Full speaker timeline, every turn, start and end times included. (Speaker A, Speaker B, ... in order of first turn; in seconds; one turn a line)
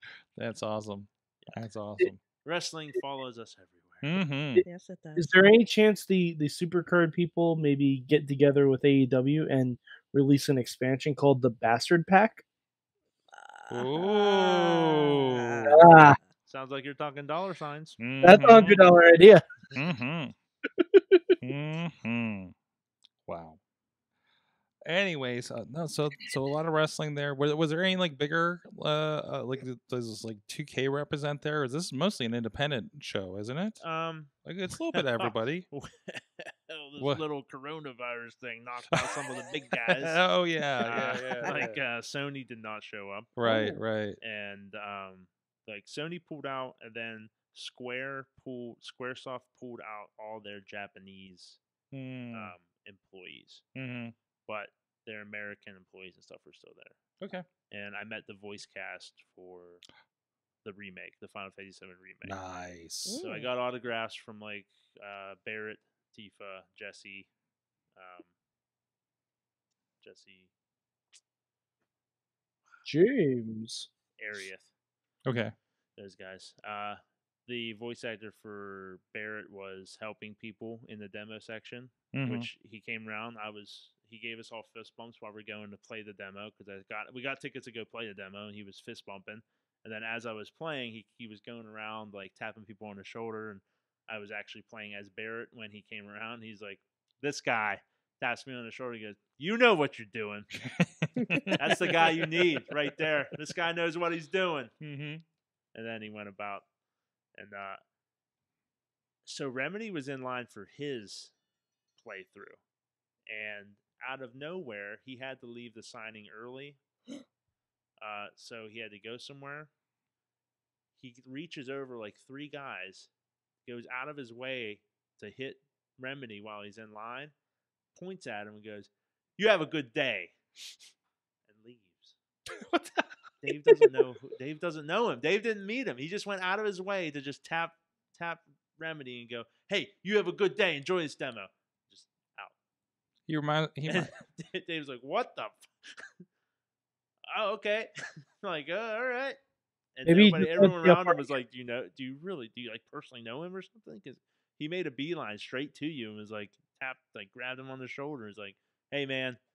Speaker A: 0.4-2.2
Speaker B: 2.4-4.2
Speaker A: 4.0-4.6
Speaker C: 4.6-5.3
Speaker D: 5.2-12.4
Speaker C: 13.3-16.3
Speaker A: 13.7-15.7
Speaker D: 15.7-16.2
Speaker B: 16.5-18.9
Speaker A: 18.0-18.8
Speaker D: 18.2-19.4
Speaker A: 19.7-20.3
Speaker D: 20.8-21.2
Speaker A: 21.4-22.5
Speaker A: 23.3-23.6
Speaker A: 24.9-33.8
Speaker B: 33.8-34.4
Speaker A: 34.4-35.7
Speaker B: 34.9-40.2
Speaker A: 37.0-37.2
Speaker A: 39.9-41.7
Speaker B: 40.8-43.4
Speaker A: 43.4-44.2
Speaker C: 43.4-43.7
Speaker B: 44.2-51.6
Speaker A: 51.9-52.5
Speaker B: 52.3-53.6
Speaker A: 53.7-54.1
Speaker B: 54.5-57.0
Speaker B: 57.7-59.8
Speaker B: 60.6-62.4
Speaker A: 62.2-63.2
Speaker C: 63.1-63.5
Speaker B: 63.2-67.3
Speaker B: 68.0-68.3
Speaker B: 70.0-70.5
Speaker D: 72.8-73.9
Speaker B: 74.2-74.7
Speaker A: 75.3-75.5
Speaker B: 76.0-100.5
Speaker A: 82.1-82.5
Speaker A: 100.8-101.6
Speaker B: 101.6-104.7
Speaker A: 104.8-105.2
Speaker B: 105.7-106.7
Speaker B: 107.3-107.8
Speaker B: 109.3-111.3
Speaker B: 112.0-112.6
Speaker B: 113.3-116.8
Speaker B: 118.0-119.7
Speaker B: 121.0-123.1
Speaker B: 123.6-127.3
Speaker B: 128.0-130.3
Speaker B: 131.5-132.2
Speaker B: 133.4-142.5
Speaker A: 143.3-144.1
Speaker B: 143.9-146.1
Speaker B: 147.3-149.4
Speaker B: 149.9-159.4
Speaker D: 150.1-151.3